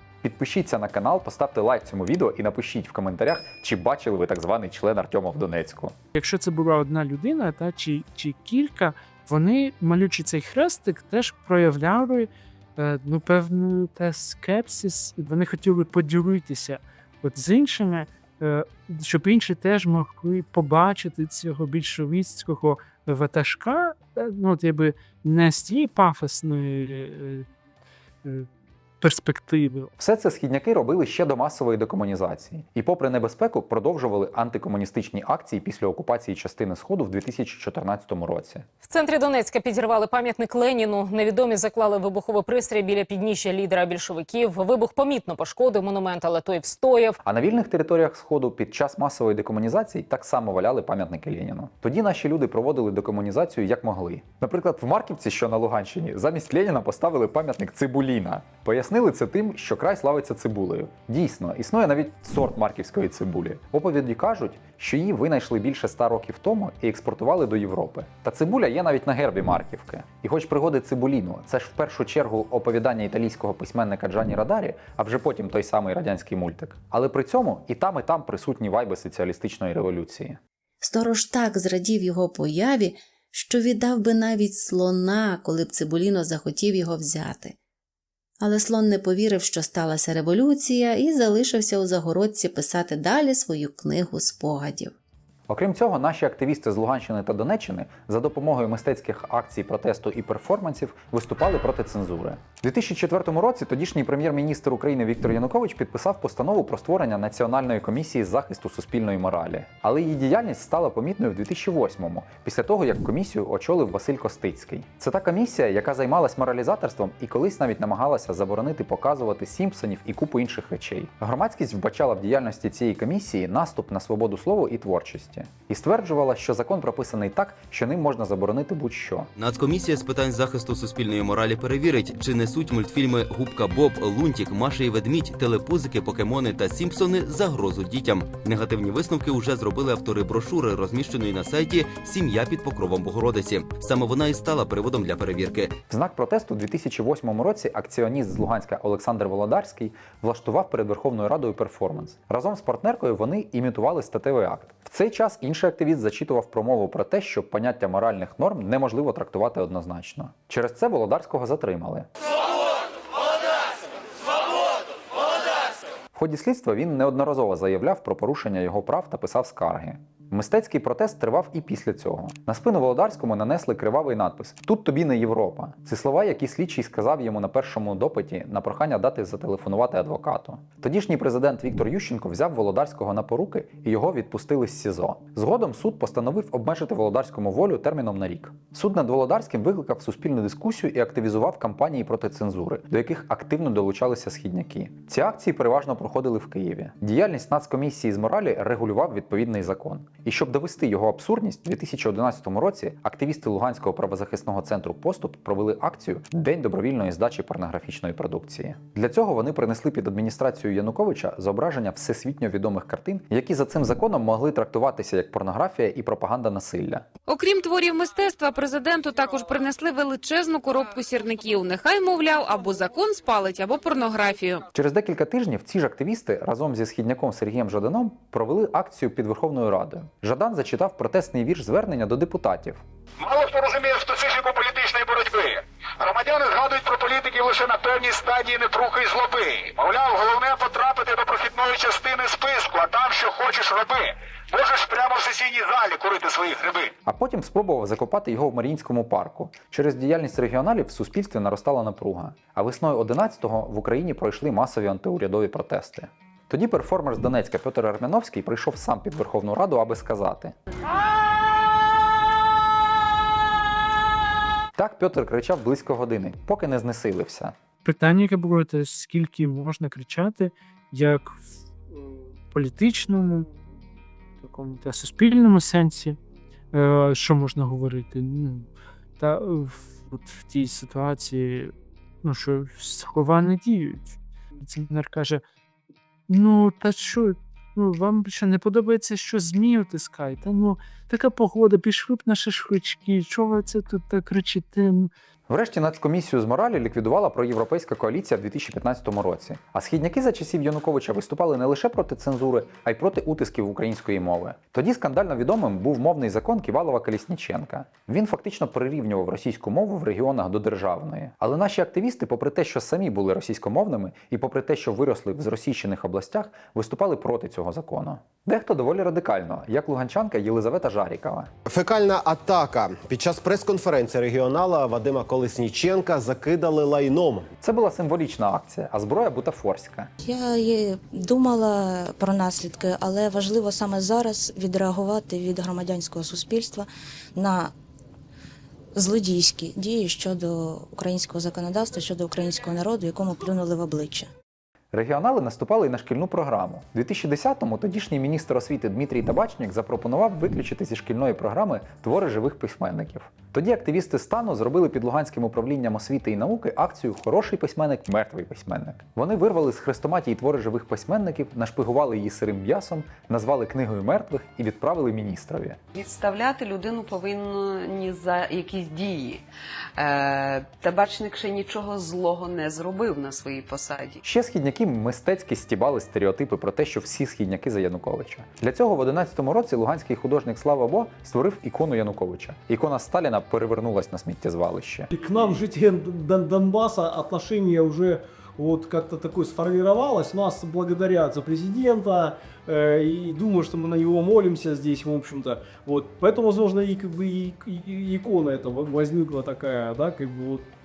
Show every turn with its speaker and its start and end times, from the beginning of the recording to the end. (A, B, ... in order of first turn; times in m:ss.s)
0:00.2-0:06.0 A
0:06.2-0:27.5 B
0:29.0-0:29.9 B
0:30.0-0:38.7 A
0:38.8-0:47.2 C
0:47.2-1:20.4 A
1:20.8-1:27.6 D
1:28.4-1:34.9 D
1:35.5-2:09.3 A
2:09.4-2:25.8 E
2:25.9-2:42.1 A
2:46.1-3:37.0 A
3:37.3-3:44.6 F
3:44.7-3:52.8 A
3:53.2-4:04.0 G
4:04.6-4:06.9 G
4:07.0-4:20.6 A
4:24.8-4:27.6 A
4:27.8-4:33.6 B
4:34.4-4:36.2 B
4:36.7-4:45.4 B
4:46.3-4:55.1 B
4:55.5-5:21.5 A
5:21.7-5:27.5 H
5:27.6-5:30.1 A
5:30.2-5:37.7 I
5:39.0-5:44.3 I
5:44.9-6:05.8 A
6:06.0-6:09.4 J
6:10.0-6:14.2 J
6:14.2-6:25.1 A
6:25.1-6:40.7 K